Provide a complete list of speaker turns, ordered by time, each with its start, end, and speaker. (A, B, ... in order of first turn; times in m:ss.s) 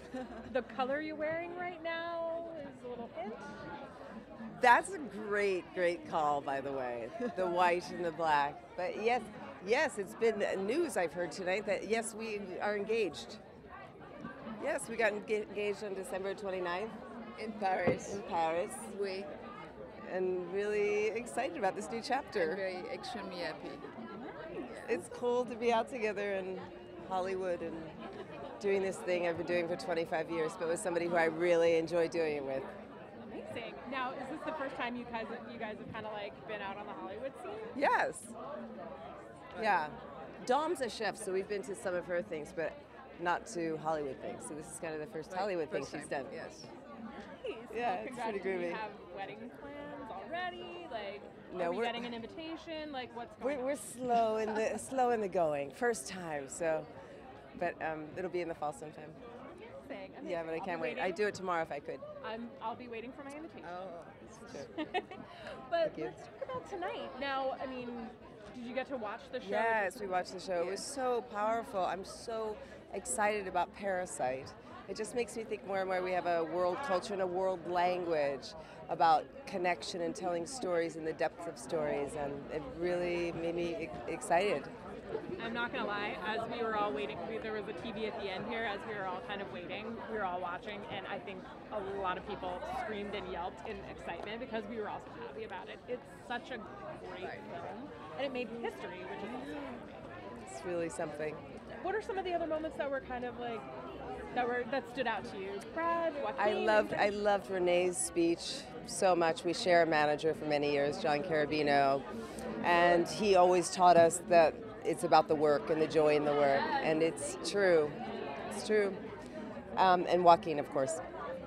0:00.4-0:03.5 A
0:04.6-0:13.4 B
0:14.6-0:17.0 B
0:17.4-0:18.2 C
0:18.0-0:18.9 B
0:18.8-0:19.3 C
0:20.0-0:22.6 B
0:22.3-0:24.0 C
0:24.1-0:24.5 A
0:24.5-0:25.0 C
0:24.8-0:28.0 B
0:28.6-0:32.7 B
0:33.2-0:37.8 A
0:37.7-0:38.3 B
0:39.5-0:46.4 B
0:45.3-0:46.7 C
0:47.2-0:54.6 A
0:47.7-0:48.8 B
0:51.5-0:52.1 B
0:53.4-0:56.9 B
0:57.6-0:59.2 B
0:59.6-1:01.2 A
1:00.2-1:02.0 B
1:02.2-1:03.8 A
1:03.6-1:04.4 C
1:04.3-1:04.7 B
1:04.6-1:10.4 A
1:05.8-1:06.2 B
1:09.4-1:24.7 B
1:25.4-1:40.1 A
1:37.2-1:37.7 C
1:40.4-1:41.4 B
1:41.8-1:43.7 A
1:44.3-1:47.2 A
1:46.4-1:52.0 B
1:52.6-1:59.0 B
1:59.7-2:01.0 B